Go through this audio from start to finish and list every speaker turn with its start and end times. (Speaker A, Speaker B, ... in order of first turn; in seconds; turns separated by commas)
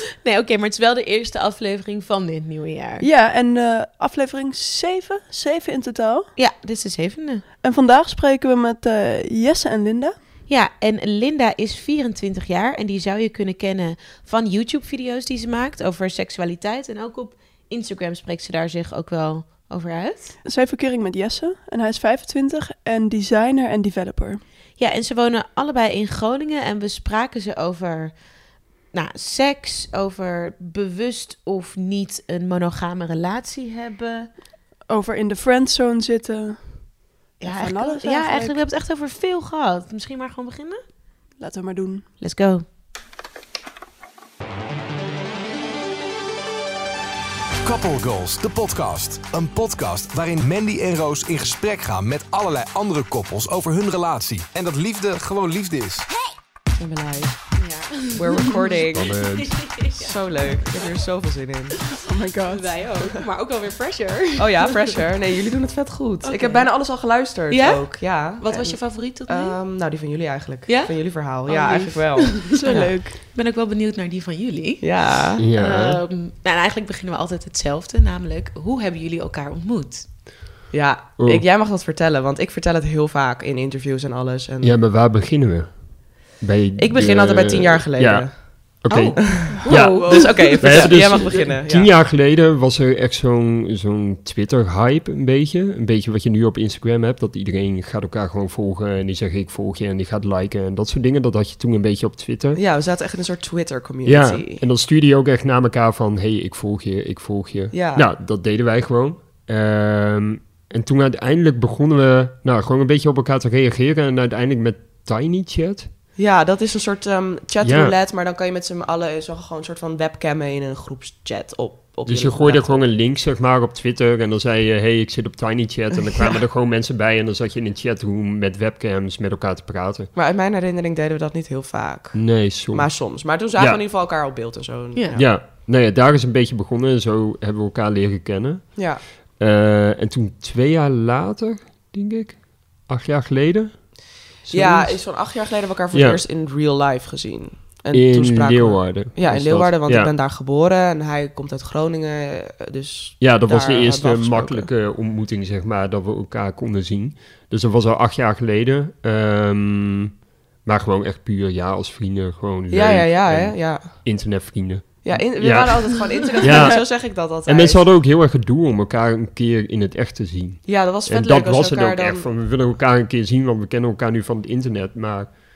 Speaker A: 0.2-3.0, Speaker B: 3.0-6.3, Speaker A: 6.3-7.4, Speaker B: 7.6-10.1, Speaker A: 10.5-20.3, Speaker B: 20.4-24.4, Speaker A: 24.8-28.1, Speaker A: 28.9-34.3, Speaker B: 34.9-38.6, Speaker A: 37.4-40.8, Speaker B: 41.4-42.1, Speaker A: 42.2-42.6, Speaker C: 47.6-56.1, Speaker D: 56.7-59.2, Speaker A: 57.5-60.8, Speaker E: 58.9-59.7, Speaker D: 59.9-61.8, Speaker B: 61.9-62.8, Speaker A: 62.5-65.0, Speaker D: 64.4-72.9, Speaker A: 66.2-66.9, Speaker A: 67.5-69.6, Speaker A: 70.7-71.0, Speaker A: 71.5-80.1, Speaker B: 71.5-73.2, Speaker D: 74.8-75.4, Speaker E: 75.4-76.0, Speaker D: 80.7-84.8, Speaker E: 81.2-81.4, Speaker E: 84.6-102.6, Speaker D: 86.8-91.9, Speaker A: 88.9-91.2, Speaker D: 102.5-104.6, Speaker E: 104.0-115.9, Speaker D: 107.7-108.1, Speaker D: 116.2-122.8, Speaker E: 117.6-117.9, Speaker E: 122.1-130.1, Speaker D: 130.1-135.3, Speaker E: 132.1-133.8, Speaker E: 135.1-145.0, Speaker D: 138.8-139.0, Speaker D: 144.5-154.7, Speaker E: 145.9-146.2, Speaker E: 147.9-150.1, Speaker E: 153.2-175.4, Speaker D: 162.7-164.1, Speaker D: 165.0-167.9, Speaker D: 170.7-172.3